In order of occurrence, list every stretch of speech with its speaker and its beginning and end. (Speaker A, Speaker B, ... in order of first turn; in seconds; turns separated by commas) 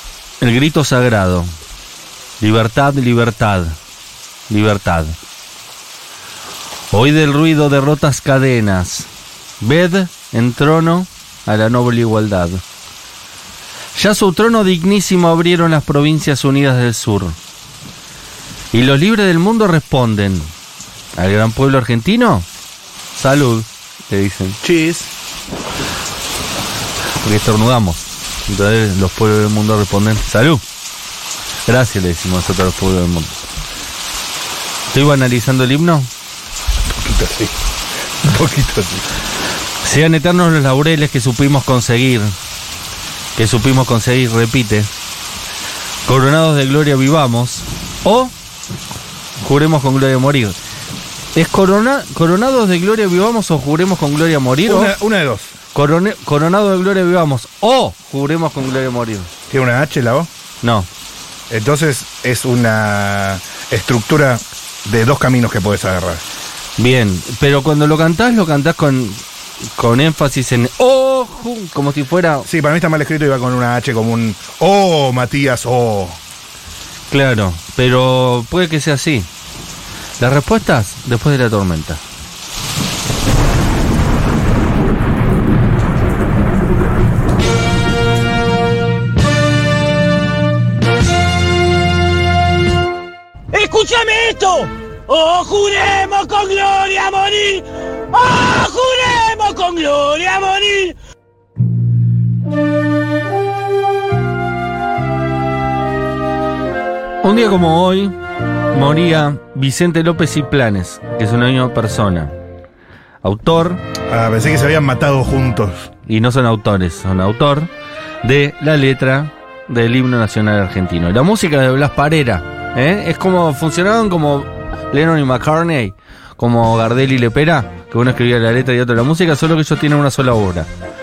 Speaker A: 0.4-1.5, Speaker A: 2.4-3.8, Speaker A: 4.5-5.2, Speaker A: 6.9-9.1, Speaker A: 9.6-12.6, Speaker A: 13.9-17.4, Speaker A: 18.7-20.5, Speaker A: 21.1-22.5, Speaker A: 23.2-24.6, Speaker B: 24.6-25.1, Speaker A: 27.2-30.6, Speaker A: 31.7-33.4, Speaker A: 34.9-36.1, Speaker B: 36.9-37.5, Speaker B: 38.2-39.0, Speaker A: 39.8-42.3, Speaker A: 43.4-44.9, Speaker A: 46.1-48.3, Speaker A: 49.4-50.6, Speaker A: 51.4-55.0, Speaker B: 54.6-55.5, Speaker A: 55.7-59.3, Speaker B: 59.5-60.3, Speaker A: 60.6-60.9, Speaker B: 61.5-66.2, Speaker A: 66.8-69.2, Speaker A: 69.8-72.5, Speaker B: 72.5-76.2, Speaker A: 77.1-79.3, Speaker A: 80.2-82.0, Speaker C: 93.5-101.0, Speaker A: 107.2-108.2, Speaker A: 108.7-112.3, Speaker A: 113.2-113.8, Speaker B: 114.1-115.9, Speaker A: 116.1-117.7, Speaker A: 118.2-130.7